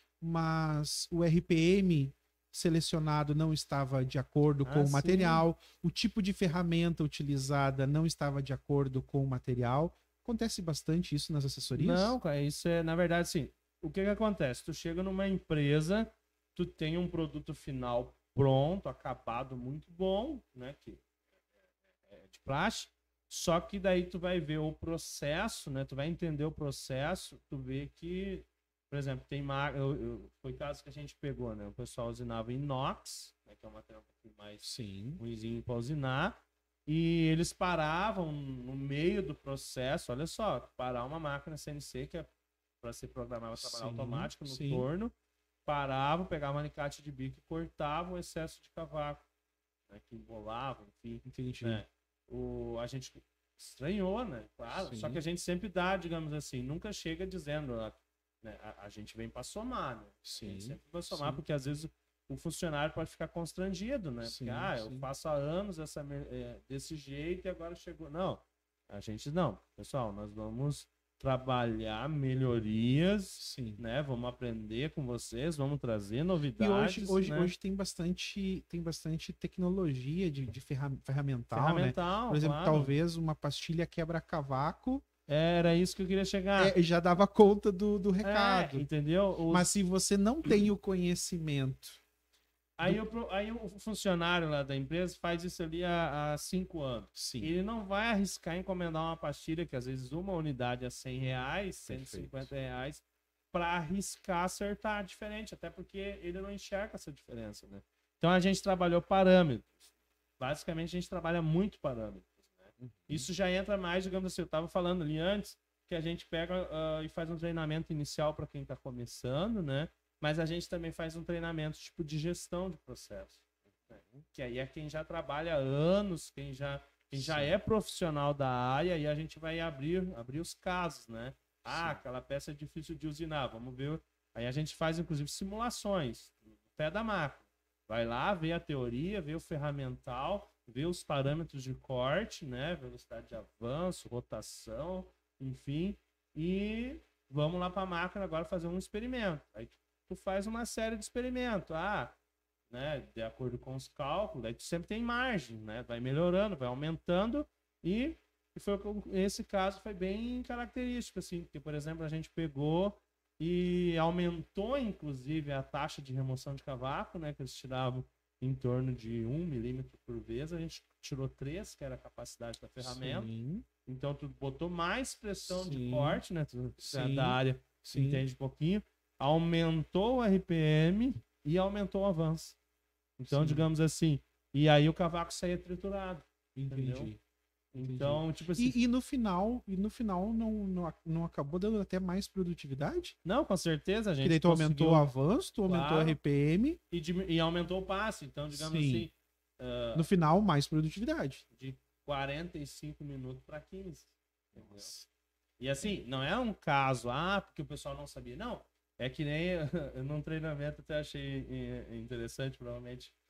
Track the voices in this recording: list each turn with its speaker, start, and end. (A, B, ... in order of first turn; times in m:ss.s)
0:00.2-0:12.2 A
0:04.6-0:05.5 B
0:11.7-0:21.0 B
0:22.1-0:42.3 B
0:34.6-0:35.2 A
0:42.8-0:45.1 B
0:43.6-0:44.9 A
0:45.6-0:49.2 B
0:49.9-1:17.5 B
0:51.2-0:51.8 A
0:54.7-0:55.2 A
1:00.2-1:01.4 A
1:04.2-1:05.1 A
1:13.4-1:13.8 A
1:16.6-1:25.0 A
1:21.5-1:22.9 B
1:25.3-1:26.8 B
1:26.6-1:28.9 A
1:28.2-1:29.7 B
1:29.5-1:32.0 A
1:32.8-1:49.8 B
1:37.2-1:37.5 A
1:41.9-1:42.5 A
1:50.4-2:03.4 B
1:52.8-1:53.3 A
2:03.8-2:04.2 A
2:04.3-2:32.2 B
2:07.1-2:07.6 A
2:11.6-2:12.0 A
2:32.7-2:53.3 B
2:52.8-2:53.7 A
2:53.8-3:02.6 B
2:55.5-2:56.2 A
2:56.8-2:58.2 A
3:03.2-3:07.1 B
3:03.3-3:03.7 A
3:06.6-3:07.2 A
3:07.7-3:08.8 B
3:07.8-3:13.2 A
3:13.2-3:15.1 B
3:14.2-3:16.8 A
3:15.6-3:16.2 B
3:16.9-3:20.1 B
3:18.5-3:19.1 A
3:20.0-3:21.4 A
3:21.5-3:24.9 B
3:24.5-3:25.1 A
3:25.6-3:33.2 B